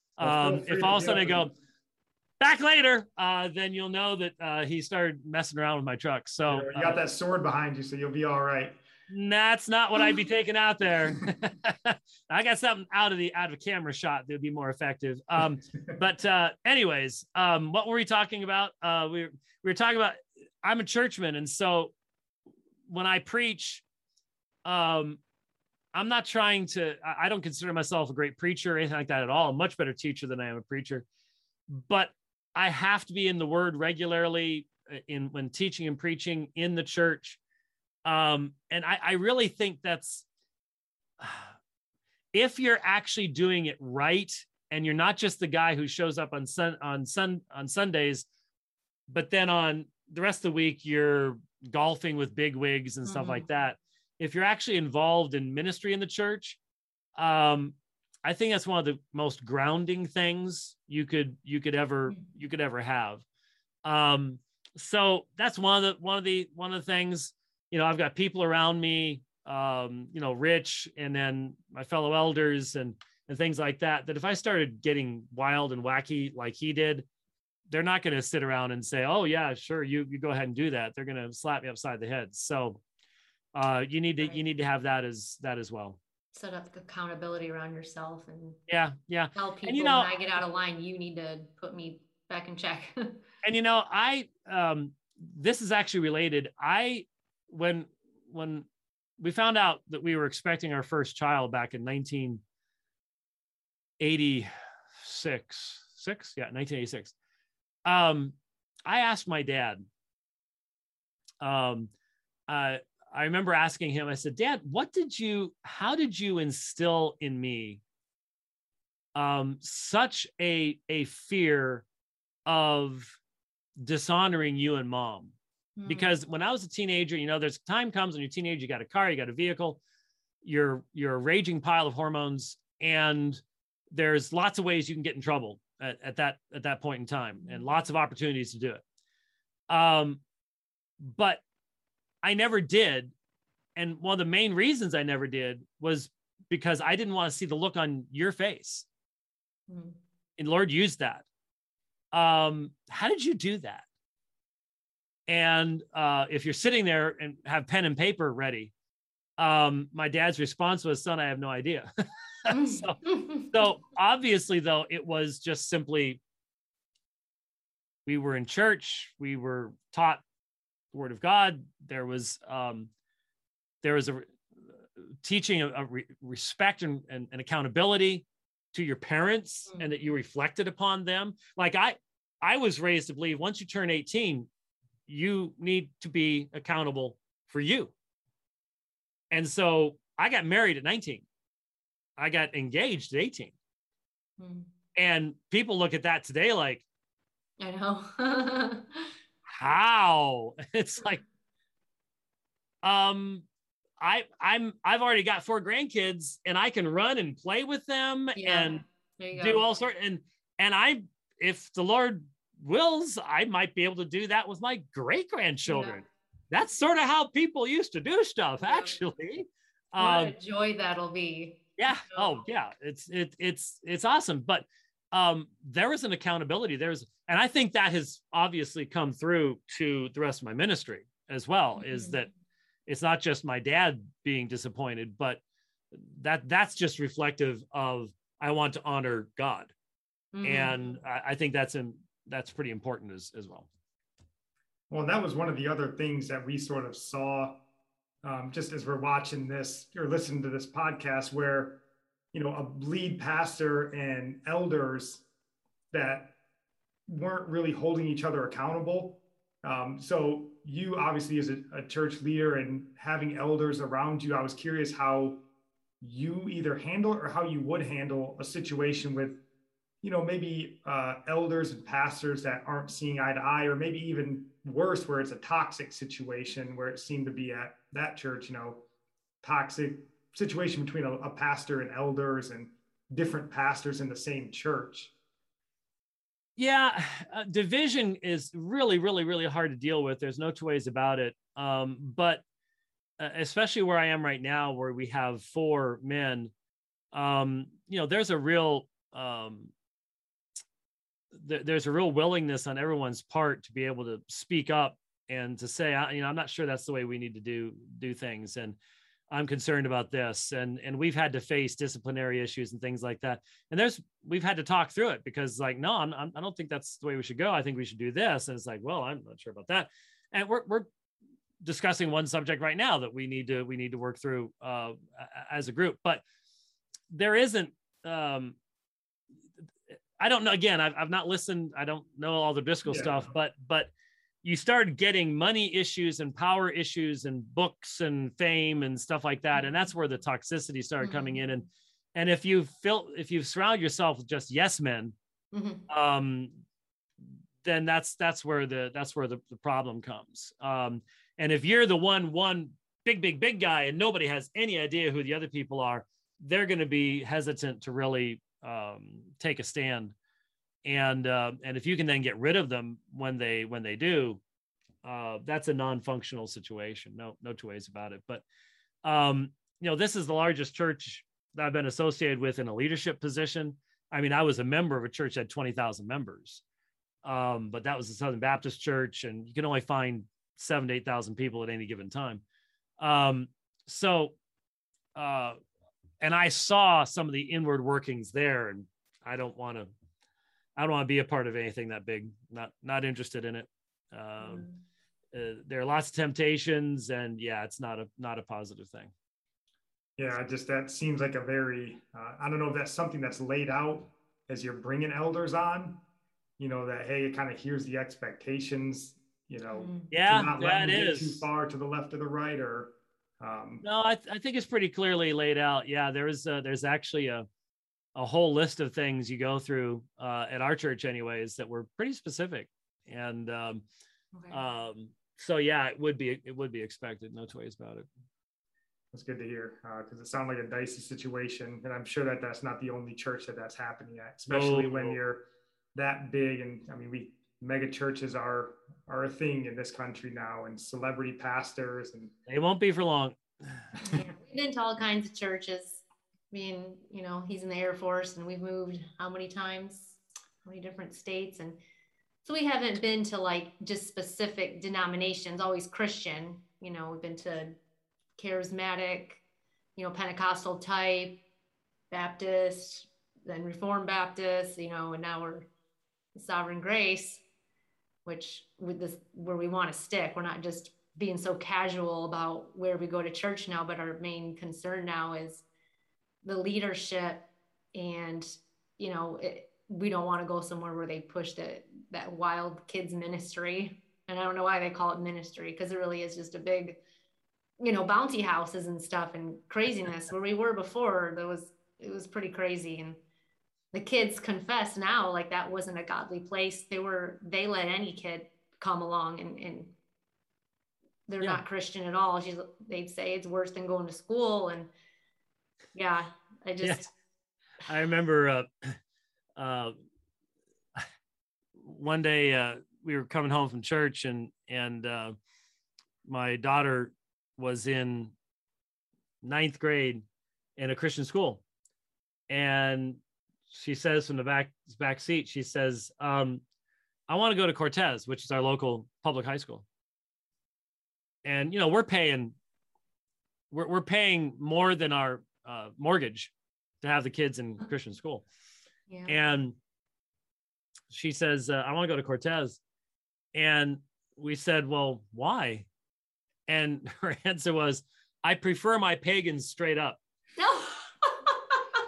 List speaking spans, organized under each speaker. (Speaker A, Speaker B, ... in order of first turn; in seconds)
Speaker A: 0.2-1.5, 2.4-7.0, 9.1-21.9, 22.9-23.8, 24.6-25.2, 25.9-31.0, 31.7-37.4, 38.0-40.2, 41.2-41.5, 42.3-48.2, 49.1-56.6, 57.2-63.2, 63.8-77.0, 77.7-82.8, 83.5-86.0, 88.7-90.1, 93.4-98.7, 99.2-102.4, 104.0-104.5, 105.0-107.1, 107.8-109.8, 111.4-111.9, 112.5-117.8, 119.1-121.8, 122.5-123.2, 123.8-125.3, 125.8-129.8, 130.4-138.8, 139.7-140.2, 141.0-141.4, 142.2-143.1, 143.8-148.8, 150.4-151.2, 152.1-153.8, 155.3-158.7, 159.4-161.9, 162.4-166.2, 168.1-170.2, 170.9-172.9, 173.8-174.3, 175.2-184.5, 185.1-187.9, 189.3-191.2, 192.2-193.5, 194.9-196.8, 199.5-201.2, 202.8-203.4, 204.0-208.8, 209.3-220.3, 221.8-232.3, 232.9-235.4, 235.9-239.7, 240.4-243.7, 286.6-292.4, 293.2-296.5, 297.1-299.7, 301.3-308.8, 309.3-320.9, 321.6-326.2, 327.1-328.6, 330.2-333.9, 334.4-345.1, 345.9-346.5, 347.6-360.1, 360.8-364.4, 365.0-368.4, 369.0-376.6, 377.2-382.4, 383.0-384.3, 385.1-385.6, 386.2-389.9, 390.8-394.7, 395.3-399.1, 410.1-411.5, 413.8-417.4, 418.1-423.8, 424.5-428.1, 434.5-435.2, 442.5-443.9, 506.8-507.1, 507.8-509.0, 509.6-509.9, 511.8-515.4, 516.2-518.3, 519.4-520.2, 520.8-521.6, 522.5-526.6, 527.3-529.8, 531.4-532.5, 533.7-536.5, 537.0-538.4, 539.3-539.8, 541.1-542.8, 543.5-545.9, 546.7-550.2
Speaker B: 0.2-1.5, 6.5-8.8, 244.9-247.6, 248.2-251.8, 252.3-255.2, 255.9-256.3, 257.1-265.4, 266.0-269.4, 270.0-278.8, 279.4-285.1, 332.9-333.2, 400.2-406.0, 406.6-413.8, 429.1-442.3
Speaker C: 53.0-53.4, 86.3-88.6, 89.3-93.2, 125.8-126.1, 137.4-137.7, 149.7-150.0, 162.5-163.5, 179.7-180.1, 194.4-194.7, 197.6-199.1, 208.3-209.6, 215.7-216.0, 218.6-218.9, 220.0-222.4, 231.8-232.2, 240.3-241.0, 341.0-341.5, 345.5-345.8, 394.4-394.7, 409.7-410.1, 424.3-424.6, 444.1-451.8, 452.4-457.8, 458.4-459.4, 459.9-461.4, 462.1-465.7, 466.3-467.4, 468.2-475.6, 476.4-487.0, 487.8-493.2, 493.9-499.9, 501.3-504.9, 505.9-507.1, 539.1-539.4, 550.6-551.8